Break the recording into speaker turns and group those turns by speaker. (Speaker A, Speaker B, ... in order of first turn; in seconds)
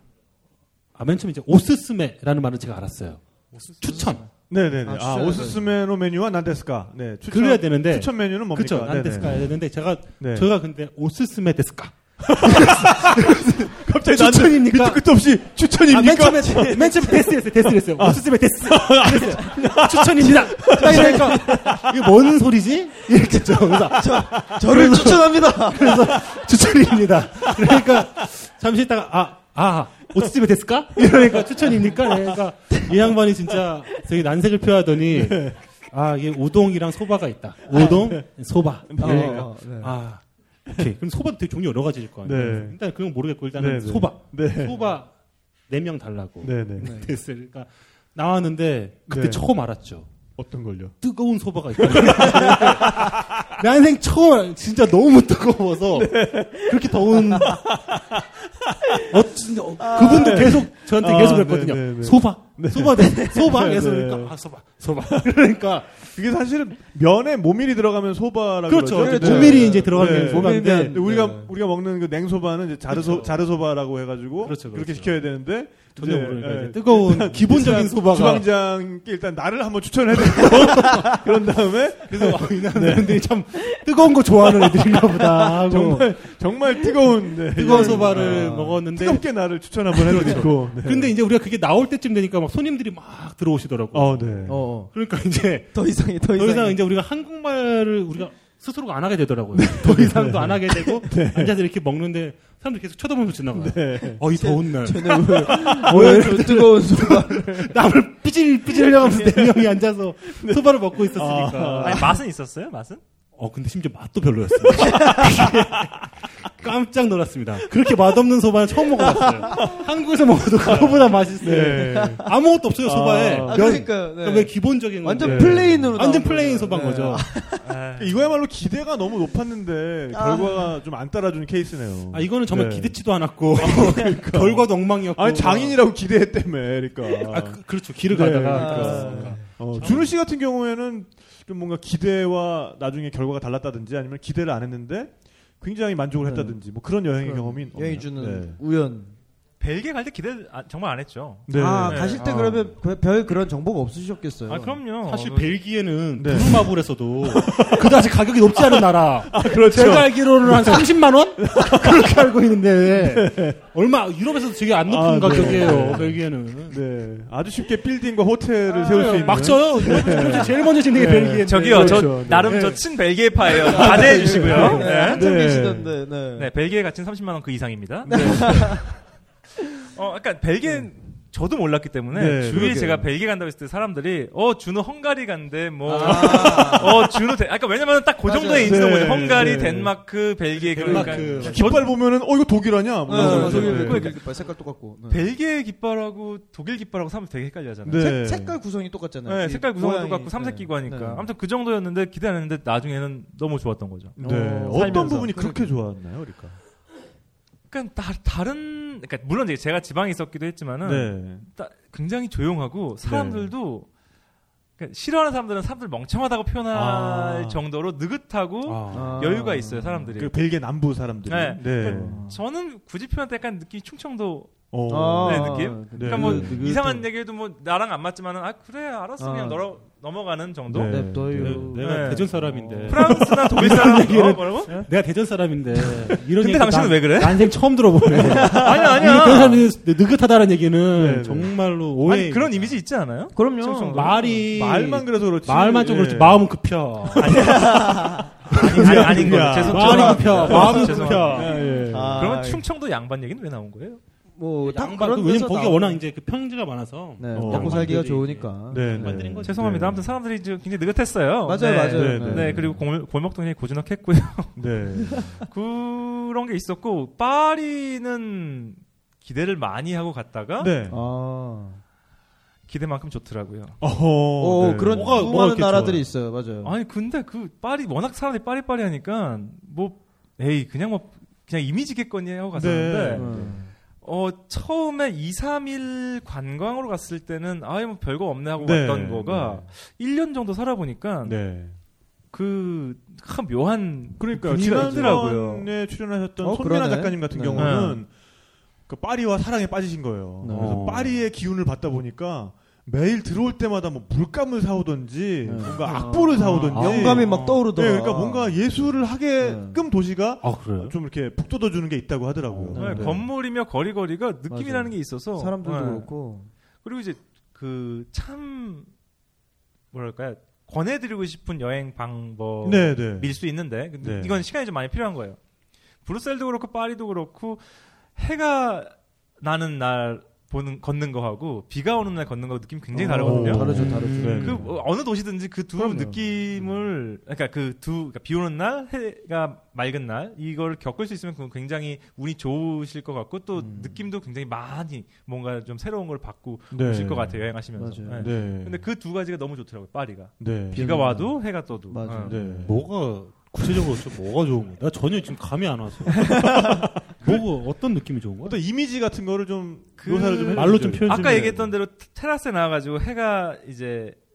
Speaker A: 0.9-4.2, 7.3-15.0, 15.9-45.1, 45.7-50.1, 51.0-57.7, 59.0-66.0, 68.7-71.0, 72.9-73.3, 74.4-75.2, 76.0-78.5, 80.3-81.2, 82.0-86.1, 87.5-89.2, 90.0-112.1, 113.3-127.3, 132.1-135.8, 137.3-140.1, 152.2-152.8, 155.0-166.8, 168.7-172.8, 173.8-175.2, 185.9-186.8, 190.6-191.8, 193.3-193.7, 218.6-219.3, 226.3-226.7, 231.3-242.8, 243.9-247.8, 248.5-251.7, 254.6-259.8, 274.9-276.0, 300.5-301.2, 305.9-307.7, 310.4-310.9, 312.6-313.1, 333.2-334.7, 352.5-358.6, 360.5-361.7
Speaker B: 3.5-4.3, 4.8-5.7, 16.3-17.2, 19.4-21.8, 23.9-26.2, 37.7-38.0, 39.0-40.0, 46.8-47.1, 59.8-60.6, 63.0-63.6, 69.0-71.5, 84.6-85.7, 87.6-88.8, 90.1-90.4, 94.5-94.9, 95.7-96.8, 104.3-107.8, 108.7-109.6, 114.7-115.4, 119.0-119.8, 121.4-122.3, 123.4-127.6, 130.1-130.8, 138.5-139.5, 146.2-146.6, 147.2-149.2, 151.5-154.8, 173.7-176.5, 178.0-178.9, 185.9-187.1, 188.2-189.8, 190.8-191.5, 193.1-195.3, 197.9-201.3, 204.2-205.7, 218.9-220.1, 221.8-222.4, 224.9-227.0, 229.2-229.7, 230.9-233.2, 238.2-239.0, 243.3-244.2, 247.2-248.3, 249.9-252.6, 254.3-256.0, 257.2-259.3, 261.4-262.5, 270.9-271.8, 274.4-276.8, 283.1-283.7, 294.6-295.4, 296.4-297.9, 300.4-300.8, 305.4-308.7, 309.4-309.8, 312.7-313.2, 314.5-316.5, 332.9-334.7, 335.8-336.3, 343.6-344.0, 347.8-348.3, 350.7-352.7
Speaker C: 4.5-9.5, 10.2-10.5, 12.2-17.1, 17.9-21.9, 31.1-32.4, 35.0-35.6, 37.7-38.2, 38.9-39.5, 42.2-42.8, 43.5-44.9, 46.4-47.0, 49.1-49.5, 50.4-51.0, 51.8-53.5, 55.9-58.2, 59.9-64.4, 66.0-83.3, 85.7-91.1, 93.9-94.7, 99.5-101.6, 103.5-104.2, 105.4-106.2, 110.3-112.2, 114.8-115.9, 120.6-122.2, 122.8-123.8, 125.2-126.0, 128.0-148.6, 151.5-152.2, 156.2-163.6, 164.8-172.6, 173.5-175.9, 178.1-178.9, 182.1-183.1, 188.6-189.9, 190.8-194.2, 197.8-198.6, 204.2-206.6, 210.8-211.4, 213.0-213.5, 216.7-217.6, 220.2-222.2, 224.7-226.7, 230.7-233.2, 240.9-241.5, 244.2-246.5, 247.2-247.8, 248.5-252.4, 257.3-260.1, 261.9-262.8, 264.6-265.4, 270.6-271.0, 273.8-276.1, 282.5-283.6, 288.6-289.7, 291.2-291.8, 294.2-298.1, 298.9-313.2, 322.6-323.4, 324.0-324.4, 333.2-334.7, 346.7-347.4, 348.1-348.8, 350.4-351.1, 352.2-352.9, 357.0-357.4, 358.4-361.6
Speaker D: 111.8-113.0, 127.6-128.3, 149.6-152.2, 154.5-155.6, 169.1-169.4, 171.4-175.2, 176.3-178.8, 179.9-191.8, 193.1-194.3, 195.1-198.1, 199.2-204.2, 204.7-205.3, 207.7-213.9, 214.8-220.3, 221.3-231.2, 231.8-232.3, 232.8-234.8, 236.4-237.5, 238.4-239.6, 242.0-244.3, 248.5-251.6, 252.2-254.0, 259.4-264.6, 265.5-270.7, 272.7-273.8, 276.6-283.5, 284.0-291.4, 292.3-295.7, 297.6-298.0, 305.8-306.2, 312.8-316.1, 316.8-318.9, 319.9-325.4, 326.0-327.6, 328.1-352.4, 360.0-364.2